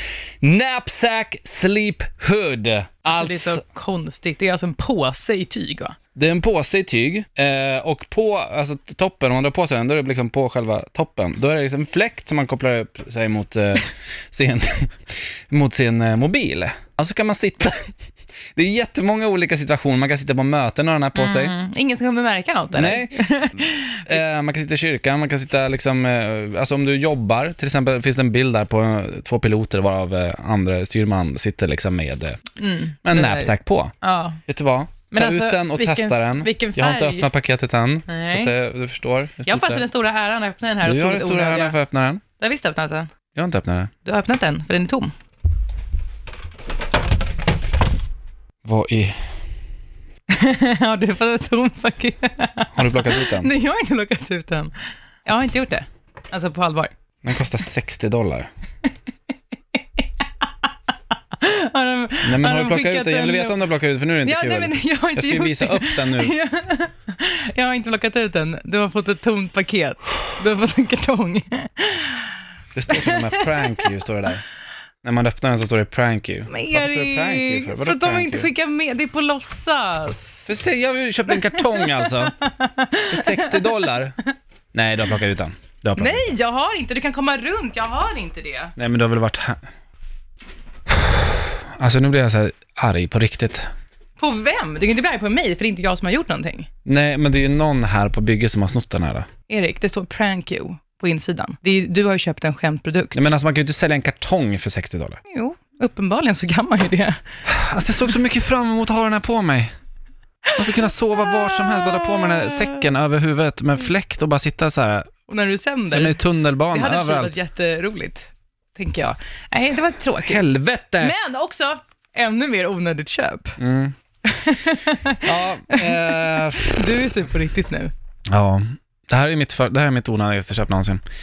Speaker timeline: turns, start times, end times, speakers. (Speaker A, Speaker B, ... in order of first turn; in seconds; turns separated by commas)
Speaker A: 0.4-3.6, Speaker B: 3.0-6.0, Speaker A: 6.1-14.9, Speaker A: 15.5-17.9, Speaker A: 18.5-21.5, Speaker B: 21.1-24.1, Speaker A: 22.7-23.3, Speaker A: 24.0-32.4, Speaker B: 32.6-34.4, Speaker A: 33.0-33.9, Speaker A: 34.5-39.8, Speaker B: 35.1-37.3, Speaker B: 38.1-38.5, Speaker B: 39.4-41.8, Speaker A: 40.8-42.2, Speaker B: 42.4-43.1, Speaker A: 43.3-43.9, Speaker B: 44.0-45.1, Speaker A: 48.6-49.1, Speaker B: 50.3-54.7, Speaker A: 52.7-53.5, Speaker B: 55.2-56.9, Speaker A: 57.2-58.5, Speaker B: 60.0-60.5, Speaker B: 61.4-63.6, Speaker A: 62.2-66.3, Speaker B: 64.2-72.3, Speaker A: 72.7-74.4, Speaker B: 72.9-73.9, Speaker A: 75.0-78.5, Speaker B: 76.5-80.5, Speaker A: 80.5-82.3, Speaker B: 81.3-83.9, Speaker A: 83.1-84.2, Speaker A: 84.7-86.3, Speaker B: 86.0-88.7, Speaker A: 88.8-89.6, Speaker A: 91.8-93.6, Speaker B: 94.2-96.7, Speaker A: 96.8-99.3, Speaker B: 99.5-103.3, Speaker A: 103.1-105.2, Speaker B: 105.3-107.2, Speaker A: 107.5-109.7, Speaker B: 110.5-112.9, Speaker A: 110.6-115.1, Speaker B: 115.3-116.2, Speaker A: 115.9-117.3, Speaker B: 116.7-120.5, Speaker A: 120.2-121.1, Speaker B: 121.0-123.6, Speaker A: 123.6-123.9, Speaker B: 124.2-127.9, Speaker A: 125.2-126.8, Speaker A: 128.3-131.0